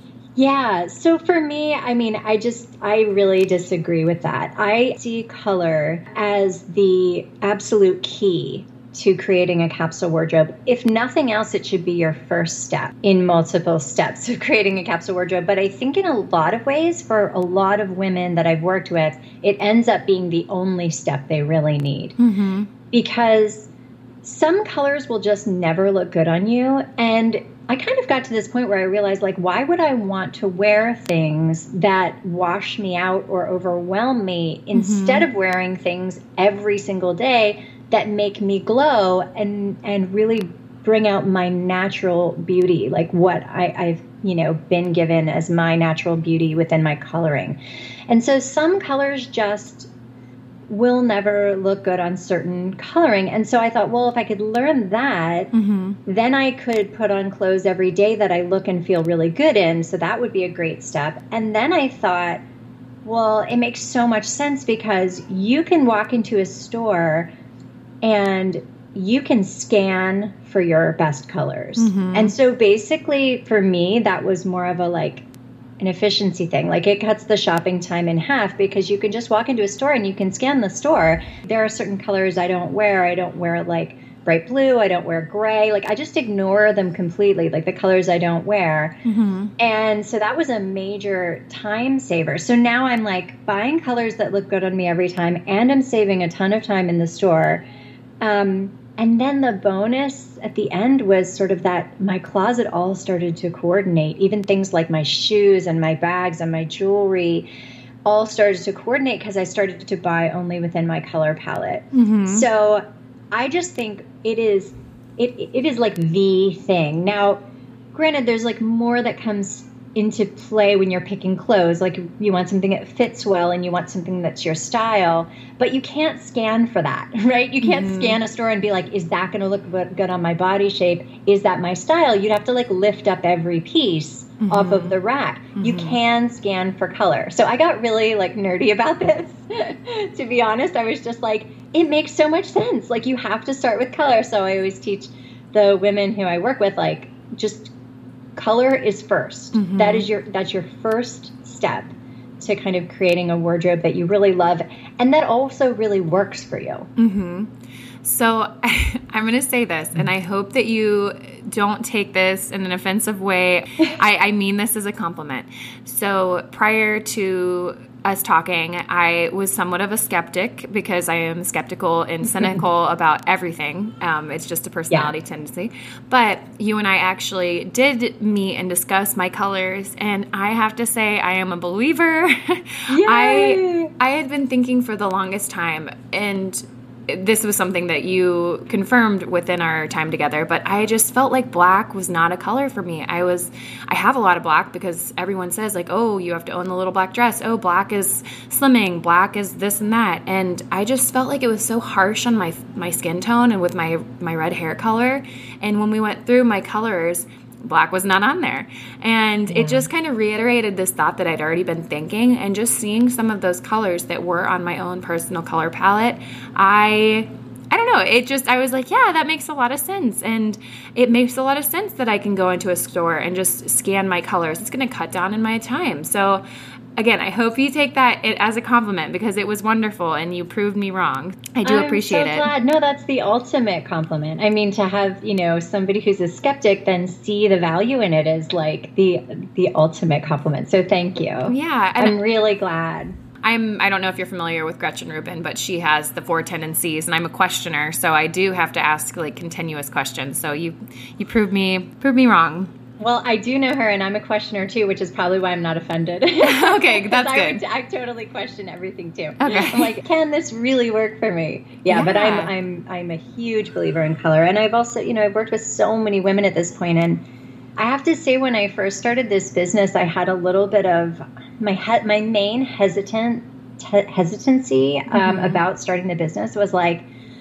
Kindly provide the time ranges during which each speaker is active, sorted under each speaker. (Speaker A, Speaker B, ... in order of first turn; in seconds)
Speaker A: 0.4-22.1, 22.9-23.7, 24.2-47.6, 48.1-49.9, 50.7-55.5, 56.1-62.4, 63.0-67.3, 68.0-75.2, 75.8-89.0, 89.6-97.6, 98.2-107.5, 108.0-117.4, 117.9-147.7, 148.4-156.9, 182.9-183.9, 209.5-209.9, 231.6-243.2, 253.0-267.2, 267.8-277.1
Speaker B: 22.2-22.7, 34.7-35.3, 55.5-56.0, 71.8-72.3, 89.0-89.5, 111.9-112.5, 127.6-128.2, 134.4-135.0, 135.6-136.0, 149.5-150.1, 157.0-157.5, 158.0-226.4, 227.0-232.5, 241.5-242.2, 243.4-252.7, 256.4-257.6, 259.4-260.0, 261.9-262.5, 275.1-275.6